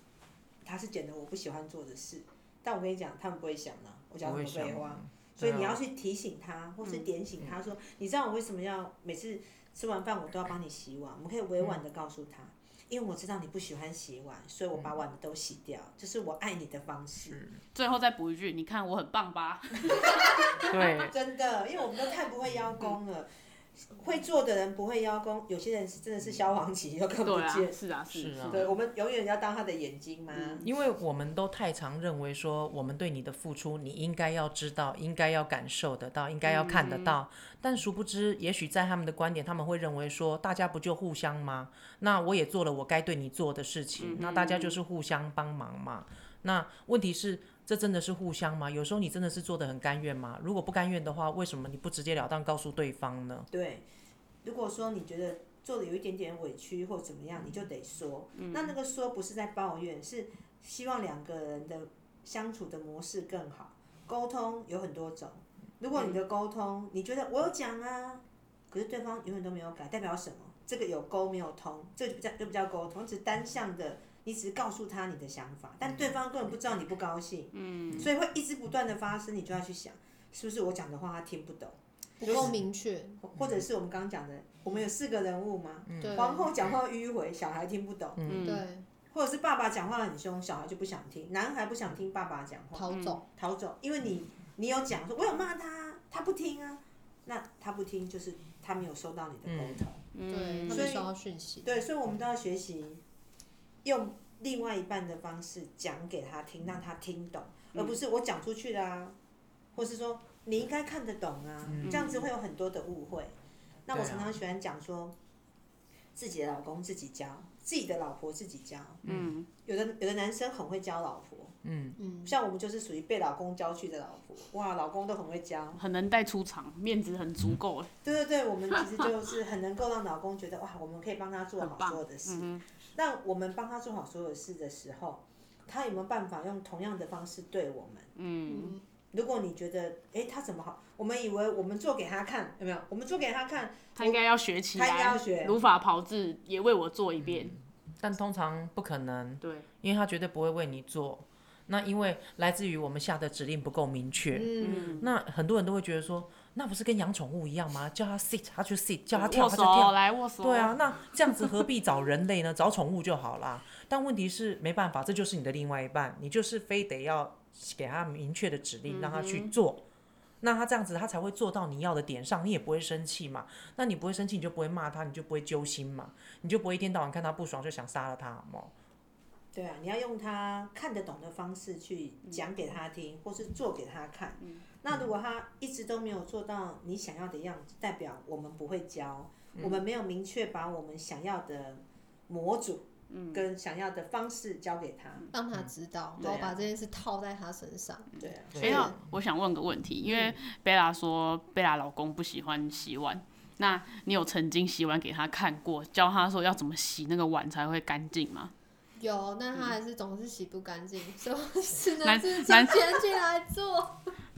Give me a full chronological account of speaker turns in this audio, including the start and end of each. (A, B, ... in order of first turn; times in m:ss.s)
0:00.6-0:17.4 A
0:04.2-0:05.8 B
0:06.8-0:07.1 C
0:17.3-0:17.6 B
0:17.7-0:20.9 C
0:20.0-0:27.7 A
0:20.6-0:21.1 B
0:27.2-0:28.7 C
0:28.1-0:28.7 B
0:28.5-0:30.6 A
0:30.6-0:53.5 B
0:36.4-0:37.2 C
0:44.0-0:44.8 C
0:53.5-0:53.8 A
0:54.4-1:22.5 A
0:58.4-0:58.7 C
1:05.9-1:06.2 C
1:15.8-1:16.1 B
1:17.5-1:18.1 C
1:22.2-1:23.2 D
1:23.2-1:28.3 A
1:23.4-1:23.6 B
1:25.9-1:26.3 B
1:26.0-1:26.5 D
1:28.2-1:28.6 B
1:28.3-1:28.6 C
1:28.4-1:28.8 D
1:29.1-1:40.0 A
1:32.7-1:33.2 D
1:32.9-1:33.2 C
1:39.4-1:39.8 B
1:40.1-1:41.0 C
1:40.3-1:41.7 D
1:40.7-1:41.1 A
1:41.6-1:43.0 A
1:43.8-1:49.2 A
1:49.7-1:53.3 A
1:51.6-1:52.1 B
1:51.8-1:52.2 C
1:53.9-1:55.1 A
1:53.9-1:54.4 B
1:56.2-1:59.0 A
1:59.0-1:59.3 B
1:59.0-1:59.5 C
1:59.6-2:01.6 A
2:01.6-2:02.0 B
2:02.0-2:02.3 D
2:02.2-2:05.8 A
2:05.8-2:07.9 C
2:08.0-2:18.1 A
2:11.6-2:12.6 C
2:18.2-2:18.8 C
2:18.5-2:18.8 D
2:19.1-2:24.2 A
2:24.0-2:27.6 C
2:24.7-2:25.6 A
2:27.2-2:49.8 B
2:29.4-2:29.7 C
2:34.4-2:35.0 A
2:34.6-2:35.1 C
2:39.1-2:41.6 C
2:48.9-2:49.5 C
2:50.4-2:58.7 B
2:59.5-3:15.3 A
3:13.1-3:13.4 C
3:15.3-3:18.1 D
3:16.2-3:16.6 A
3:18.2-3:18.8 A
3:18.5-3:19.0 B
3:18.5-3:28.5 C
3:18.6-3:18.9 D
3:29.0-3:34.1 D
3:32.0-3:33.0 C